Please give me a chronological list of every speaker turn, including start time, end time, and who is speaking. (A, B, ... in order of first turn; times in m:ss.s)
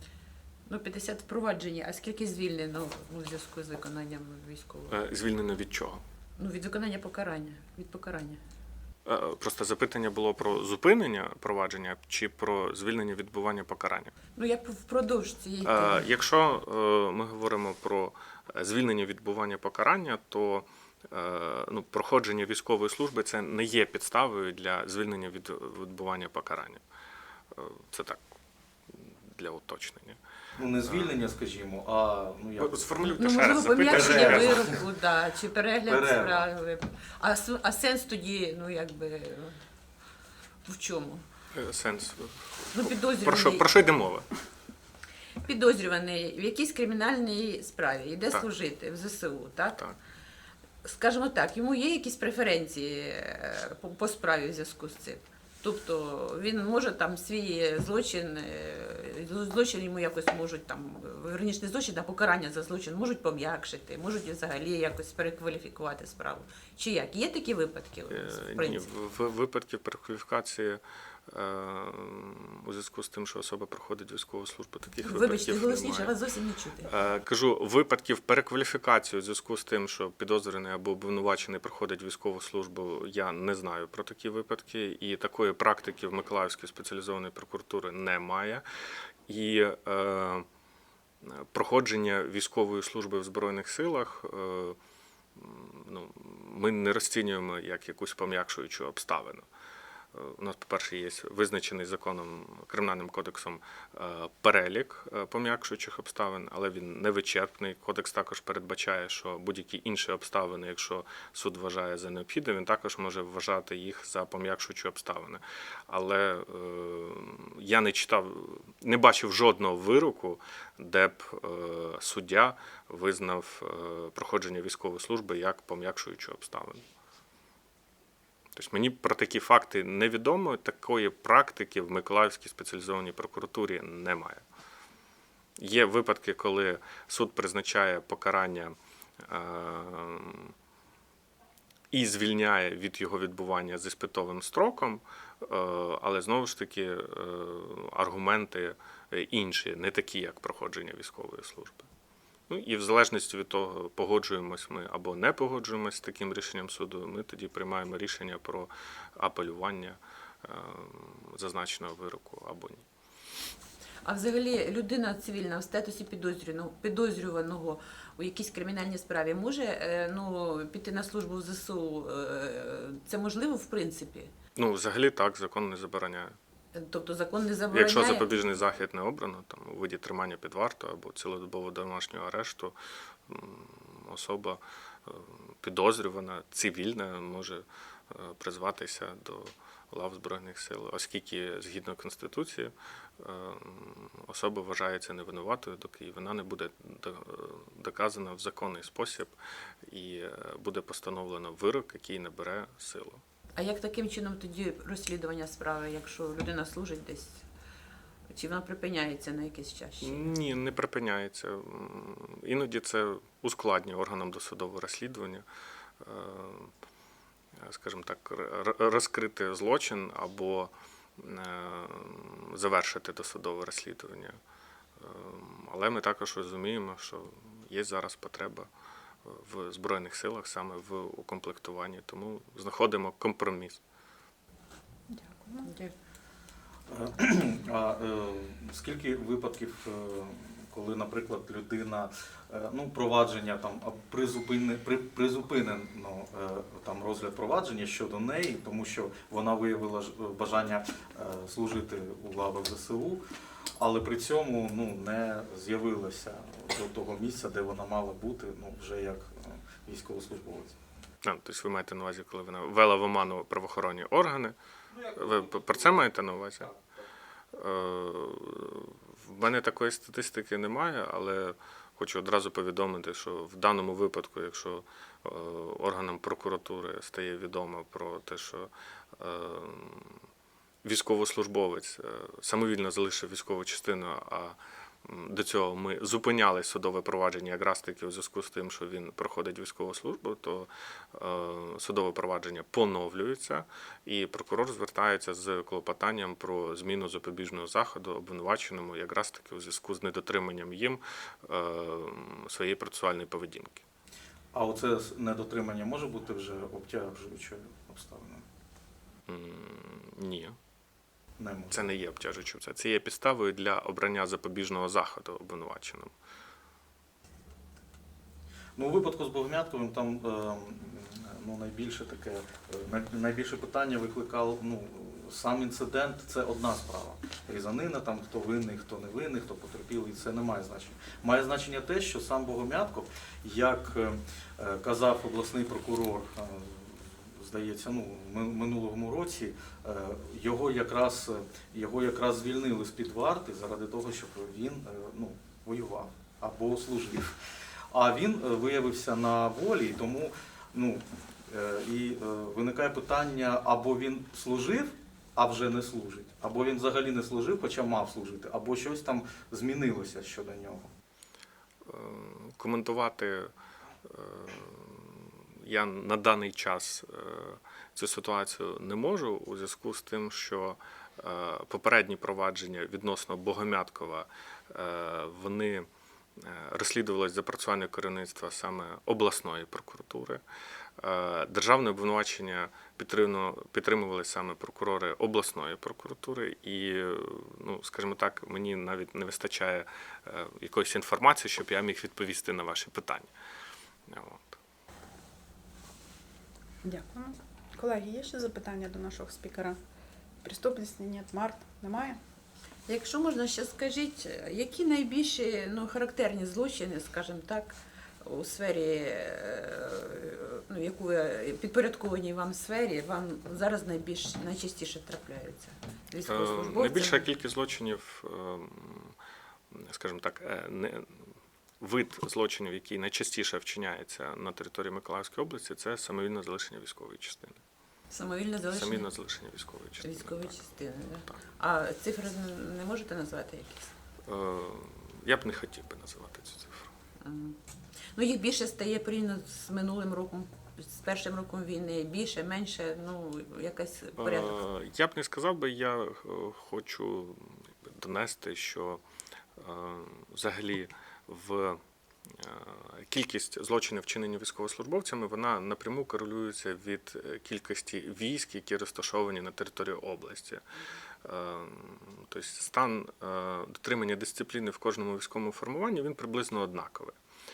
0:00.7-0:05.0 A
0:04.9-0:06.0 B
0:06.4-0:08.4 A
0:09.0-0:14.1 B
0:14.4-0:16.1 A
0:15.6-0:26.8 B
0:27.5-0:28.3 B
0:28.9-0:30.2 B
0:30.5-0:33.1 C
0:30.8-0:31.1 B
0:32.6-0:34.8 B
0:33.1-0:39.6 A
0:33.8-0:34.8 C
0:35.8-0:36.5 C
0:40.6-0:41.2 A
0:41.5-0:44.3 B
0:42.7-0:43.7 A
0:45.4-0:49.8 A
0:50.8-1:08.9 A
1:08.1-1:16.1 B
1:15.0-1:16.9 A
1:16.8-1:28.6 B
1:29.3-1:30.4 B
1:31.2-1:34.8 B
1:35.4-1:39.4 B
1:40.1-2:06.8 B
2:08.5-2:14.4 B
2:15.6-2:20.5 B
2:21.9-2:31.9 B
2:32.5-2:42.8 B
2:44.0-2:54.3 A
2:54.6-2:56.4 B
2:56.7-2:58.3 A
2:57.7-3:02.7 B
3:03.3-3:23.2 B
3:23.6-3:27.4 A
3:28.3-3:30.3 A
3:30.0-3:35.4 B
3:36.0-3:36.7 B
3:37.6-3:44.4 B
3:45.0-3:48.7 B
3:49.2-3:53.8 B
3:55.1-3:55.7 D
3:55.6-3:55.9 A
3:56.9-4:13.2 C
4:13.8-4:20.8 C
4:21.2-4:24.6 B
4:25.1-4:26.7 B
4:27.5-4:40.2 B
4:40.8-5:03.8 B
5:04.5-5:08.4 C
5:09.3-5:10.6 B
5:11.4-5:11.8 C
5:11.7-5:16.1 B
5:18.8-5:47.4 C
5:47.9-6:00.9 C
6:01.8-6:03.5 B
6:04.0-6:20.4 B
6:21.0-6:33.3 B
6:34.1-6:34.6 B
6:36.8-6:39.8 D
6:40.4-6:42.2 D
6:42.9-6:57.2 A
6:56.2-6:59.1 B
6:59.7-7:01.3 B
7:01.8-7:07.6 B
7:08.1-7:09.1 A
7:08.7-7:10.6 B
7:10.0-7:13.9 A
7:14.2-7:16.9 B
7:17.2-7:17.6 A
7:18.1-7:24.6 A
7:24.2-7:29.0 B
7:29.6-7:40.6 B
7:41.2-7:47.2 B